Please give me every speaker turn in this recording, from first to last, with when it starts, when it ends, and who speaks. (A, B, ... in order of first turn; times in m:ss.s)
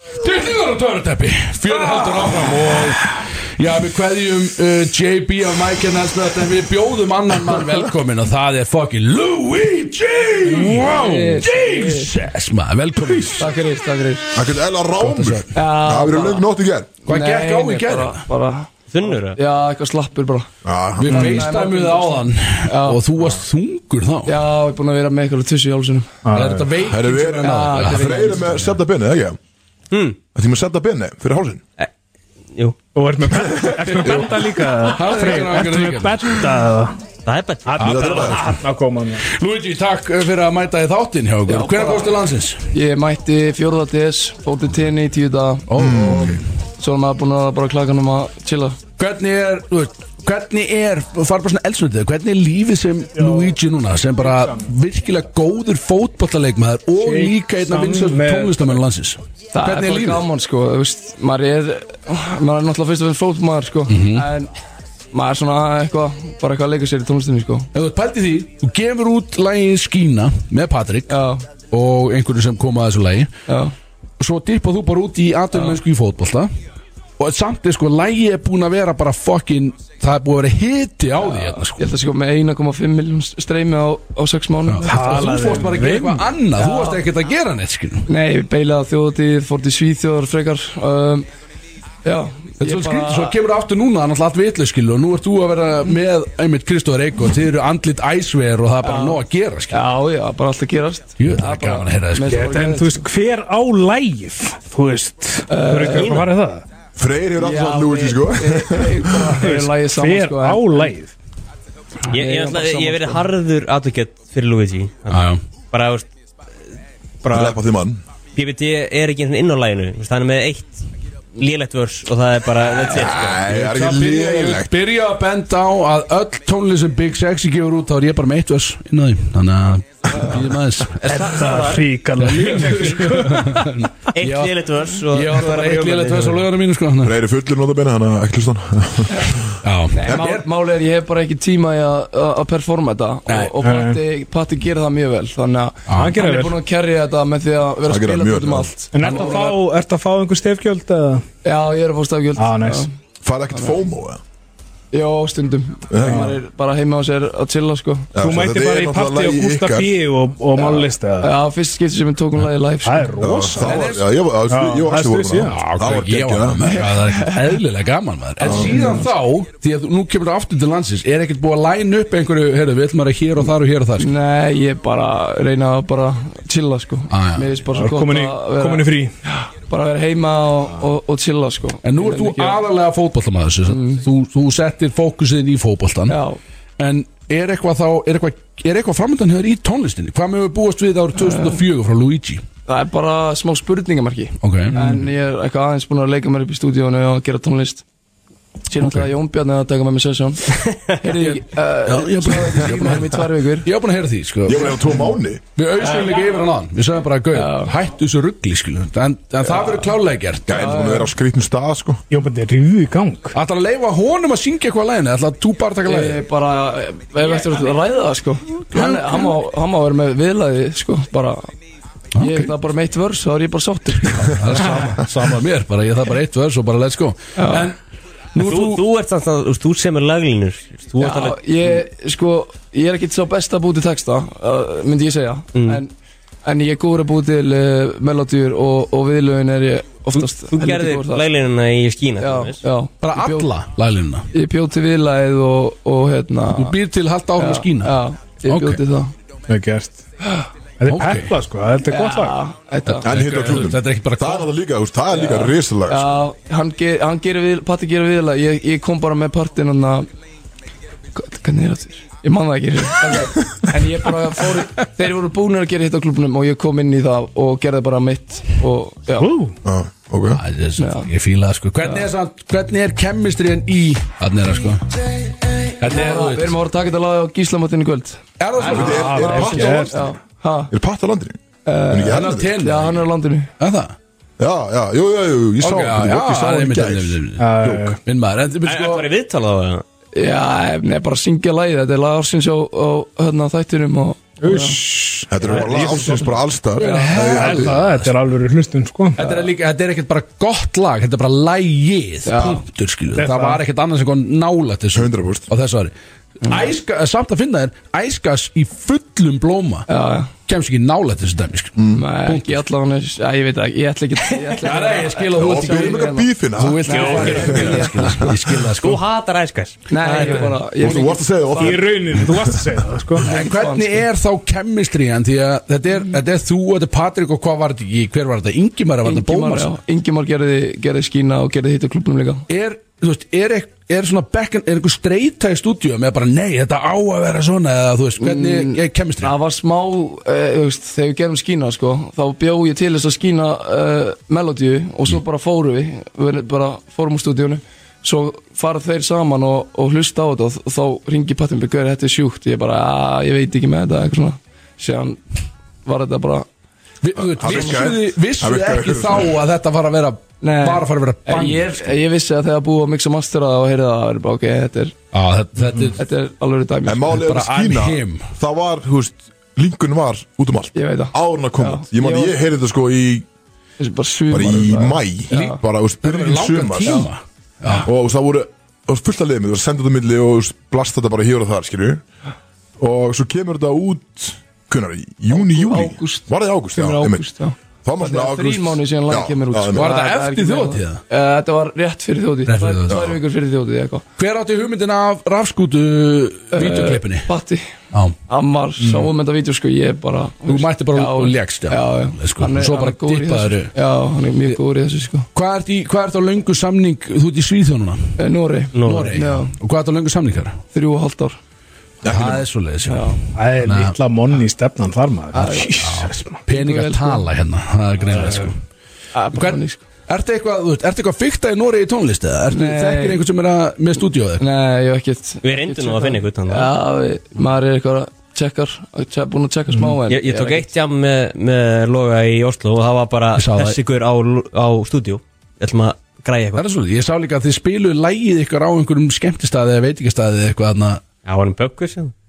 0:00.2-0:13.5 A
0:10.6-0:12.1 B
0:10.6-0:11.0 C
0:13.4-0:14.3 B
0:14.3-0:16.9 D
0:15.0-0:15.5 A
0:15.5-0:16.5 B
0:17.0-0:20.5 B
0:17.1-0:18.3 A
0:18.9-0:19.4 E
0:20.6-0:21.5 D
0:21.0-0:24.4 A
0:21.0-0:23.0 B
0:24.2-0:26.2 B
0:26.2-0:26.7 C
0:26.3-0:28.7 A
0:26.9-0:29.4 D
0:27.4-0:28.5 B
0:29.9-0:30.2 E
0:30.3-0:31.6 D
0:32.9-0:37.0 C
0:33.9-0:36.4 A
0:37.2-0:38.4 E
0:37.7-0:39.2 C
0:37.8-0:38.6 A
0:37.8-0:38.4 D
0:39.2-0:42.7 A
0:41.5-0:42.2 B
0:42.7-0:48.8 B
0:45.7-0:46.4 A
0:45.8-0:46.4 D
0:49.0-1:00.2 A
0:53.2-0:53.5 C
0:54.2-0:54.7 C
0:57.0-0:58.6 C
0:59.5-1:04.5 B
1:03.9-1:04.3 A
1:05.1-1:07.7 B
1:07.7-1:13.3 A
1:11.1-1:11.4 B
1:13.5-1:13.7 B
1:14.2-1:16.5 A
1:17.2-1:21.9 A
1:21.2-1:25.6 B
1:24.6-1:28.1 A
1:24.8-1:26.2 C
1:26.6-1:27.0 B
1:28.1-1:31.3 B
1:32.0-1:33.4 B
1:32.6-1:39.8 A
1:38.8-1:43.0 B
1:41.2-1:42.4 A
1:42.3-1:46.6 C
1:45.5-1:46.2 B
1:47.0-1:49.4 D
1:47.3-1:50.9 B
1:49.4-1:51.1 C
1:52.1-1:56.1 E
1:52.1-1:53.2 B
1:55.1-1:55.4 A
1:57.2-1:57.6 E
1:57.3-1:58.0 D
1:58.3-2:00.8 E
2:01.4-2:03.4 E
2:02.8-2:04.7 D
2:03.4-2:11.3 A
2:11.0-2:11.9 E
2:11.0-2:13.8 C
2:12.2-2:17.2 A
2:14.1-2:16.4 E
2:17.0-2:20.4 D
2:19.6-2:20.4 A
2:19.9-2:29.4 B
2:23.3-2:23.5 A
2:23.6-2:24.0 C
2:25.9-2:26.2 A
2:25.9-2:26.6 C
2:27.8-2:28.7 D
2:28.9-2:31.2 C
2:29.0-2:29.6 A
2:31.4-2:32.9 B
2:32.4-2:32.8 C
2:33.2-2:34.2 D
2:34.9-2:38.2 B
2:35.9-2:36.3 D
2:36.0-2:36.4 C
2:38.1-2:40.0 D
2:38.2-2:41.3 C
2:40.6-2:43.2 B
2:42.8-2:43.8 C
2:43.2-2:46.7 D
2:43.6-2:44.0 A
2:44.5-2:45.6 C
2:45.4-2:54.1 A
2:46.7-2:47.6 B
2:48.4-2:49.1 B
2:48.4-2:48.8 D
2:54.0-2:58.9 B
2:57.1-2:57.5 A
2:57.7-2:59.1 C
2:59.7-3:02.6 B
3:01.8-3:06.2 A
3:03.6-3:04.0 B
3:06.1-3:06.4 B
3:06.8-3:12.4 A
3:11.2-3:11.6 B
3:12.6-3:17.8 B
3:14.4-3:15.1 A
3:18.7-3:23.7 B
3:18.8-3:19.1 A
3:20.6-3:20.9 E
3:21.8-3:24.9 A
3:24.4-3:25.4 D
3:25.6-3:30.8 A
3:25.8-3:26.2 B
3:27.3-3:27.7 B
3:29.4-3:29.9 B
3:30.5-3:32.0 D
3:30.5-3:31.1 B
3:32.1-3:33.3 C
3:33.3-3:36.2 A
3:35.8-3:41.5 B
3:38.7-3:39.4 A
3:42.2-3:42.5 A
3:42.2-3:44.7 B
3:44.1-3:47.8 A
3:47.4-3:47.7 B
3:48.3-3:48.8 A
3:48.4-3:51.4 E
3:51.0-3:55.9 B
3:55.5-3:55.8 E
3:56.4-4:01.3 B
4:00.2-4:02.6 E
4:02.2-4:03.5 B
4:03.0-4:04.3 A
4:04.3-4:06.8 B
4:06.5-4:08.8 A
4:07.4-4:09.1 B
4:09.5-4:10.0 C
4:10.8-4:12.4 C
4:10.9-4:11.3 A
4:11.8-4:13.3 B
4:12.8-4:14.5 A
4:13.0-4:16.2 D
4:15.1-4:20.1 B
4:21.1-4:29.3 B
4:29.2-4:29.5 C
4:29.6-4:30.4 D
4:30.4-4:34.8 A
4:30.8-4:31.1 B
4:31.8-4:32.1 B
4:35.8-4:36.6 A
4:35.8-4:40.7 B
4:38.4-4:39.9 A
4:38.6-4:40.0 D
4:38.8-4:40.0 C
4:40.7-4:42.7 D
4:41.6-4:43.5 B
4:42.1-4:43.0 A
4:43.6-4:43.9 A
4:44.4-4:48.0 D
4:45.6-4:47.5 A
4:47.4-4:48.0 C
4:48.0-4:49.1 A
4:48.6-4:49.8 E
4:50.1-4:54.8 B
4:54.4-4:56.4 C
4:55.3-4:57.8 D
4:56.8-4:58.1 A
4:56.8-4:57.2 B
4:57.2-4:59.2 C
4:59.2-5:09.9 A
5:02.2-5:02.6 B
5:03.2-5:03.6 C
5:04.9-5:05.5 D
5:06.4-5:06.7 B
5:09.9-5:10.3 B
5:10.5-5:12.6 A
5:11.8-5:12.0 D
5:11.9-5:16.3 B
5:14.6-5:19.0 A
5:15.3-5:18.3 D
5:16.8-5:18.3 B
5:17.0-5:17.8 E
5:18.7-5:20.6 E
5:19.9-5:21.8 B
5:20.8-5:22.4 D
5:21.5-5:23.3 C
5:23.2-5:24.0 B
5:23.3-5:29.7 A
5:29.0-5:32.4 B
5:32.5-5:39.3 A
5:38.2-5:55.2 B
5:55.8-5:56.5 B
5:57.0-6:02.0 A
5:57.2-5:59.4 D
6:00.4-6:04.9 B
6:05.1-6:06.0 A
6:06.0-6:07.2 B
6:06.8-6:13.2 D
6:07.1-6:08.3 A
6:10.7-6:12.4 B
6:13.8-6:15.6 B
6:14.3-6:17.1 D
6:15.3-6:17.9 A
6:17.8-6:22.0 D
6:22.8-6:27.3 D
6:25.3-6:34.0 B
6:27.8-6:30.0 D
6:29.7-6:31.0 A
6:32.4-6:33.0 A
6:32.9-6:33.2 D
6:34.2-6:37.3 A
6:36.5-6:37.7 B
6:37.9-6:38.2 A
6:38.3-6:45.3 B
6:40.4-6:43.7 A
6:45.3-6:48.2 A
6:48.2-6:49.5 B
6:48.7-6:49.2 E
6:48.8-6:50.6 A
6:50.7-6:51.4 B
6:52.0-6:52.4 D
6:52.0-6:53.9 A
6:52.8-6:53.2 B
6:53.3-6:56.4 C
6:55.3-6:55.8 B
6:55.8-6:58.6 A
6:56.5-6:57.2 B
6:59.1-6:59.8 B
6:59.3-7:04.4 A
7:02.5-7:03.2 B
7:04.4-7:10.7 B
7:05.4-7:06.7 E
7:10.1-7:16.6 E
7:13.3-7:13.8 A
7:16.6-7:21.0 A
7:21.2-7:22.1 E